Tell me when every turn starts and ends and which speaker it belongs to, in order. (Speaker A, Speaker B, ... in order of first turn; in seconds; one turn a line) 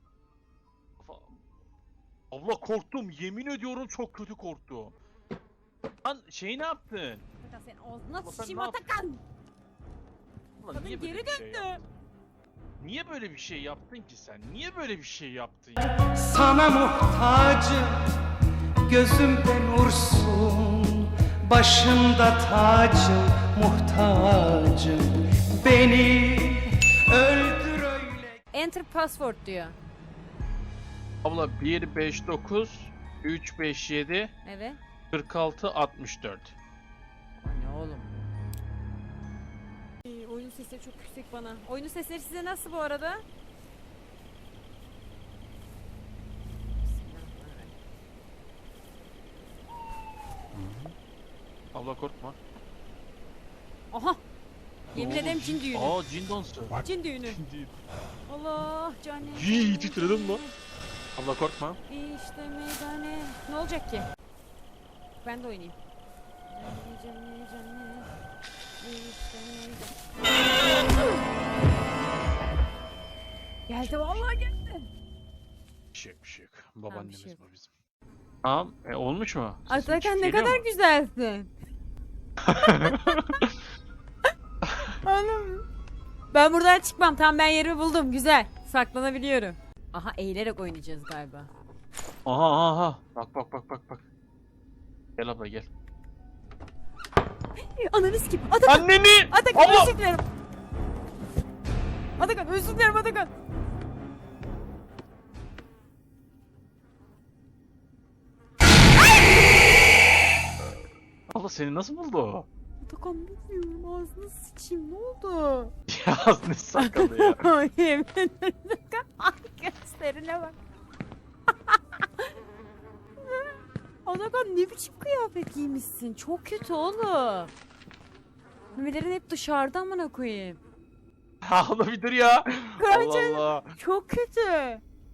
Speaker A: 1.0-1.5
Speaker A: 2.3-5.0
Speaker A: 6.0-7.3
Speaker B: 7.4-9.2
Speaker A: 8.2-8.9
Speaker A: 10.6-11.8
Speaker B: 10.7-11.8
Speaker A: 12.8-16.0
Speaker C: 16.1-18.1
Speaker C: 18.9-28.3
Speaker B: 28.5-29.8
Speaker A: 31.2-34.3
Speaker B: 34.5-34.8
Speaker A: 35.1-36.6
Speaker B: 37.4-38.1
Speaker B: 40.0-43.2
Speaker B: 46.9-47.7
Speaker A: 50.6-50.9
Speaker A: 51.7-52.4
Speaker B: 53.9-54.2
Speaker B: 54.9-56.0
Speaker A: 54.9-57.8
Speaker B: 56.8-57.4
Speaker B: 58.3-60.6
Speaker A: 59.2-60.4
Speaker A: 61.2-61.8
Speaker B: 61.9-64.1
Speaker B: 65.2-65.8
Speaker B: 66.5-68.1
Speaker B: 68.8-70.0
Speaker B: 70.8-71.1
Speaker B: 73.7-74.9
Speaker A: 75.9-77.7
Speaker B: 76.9-77.4
Speaker A: 78.4-80.7
Speaker B: 79.7-81.5
Speaker A: 82.4-83.6
Speaker B: 82.6-83.2
Speaker A: 84.6-85.0
Speaker B: 85.0-85.7
Speaker B: 86.3-91.5
Speaker A: 92.2-94.1
Speaker A: 95.2-95.7
Speaker B: 97.6-100.3
Speaker A: 98.7-99.9
Speaker B: 102.2-103.3
Speaker A: 111.3-112.5
Speaker B: 112.8-115.7
Speaker A: 115.9-117.5
Speaker B: 116.8-120.6
Speaker B: 121.7-122.3
Speaker B: 123.2-127.5
Speaker B: 128.8-130.6
Speaker A: 131.4-133.8
Speaker B: 132.8-134.8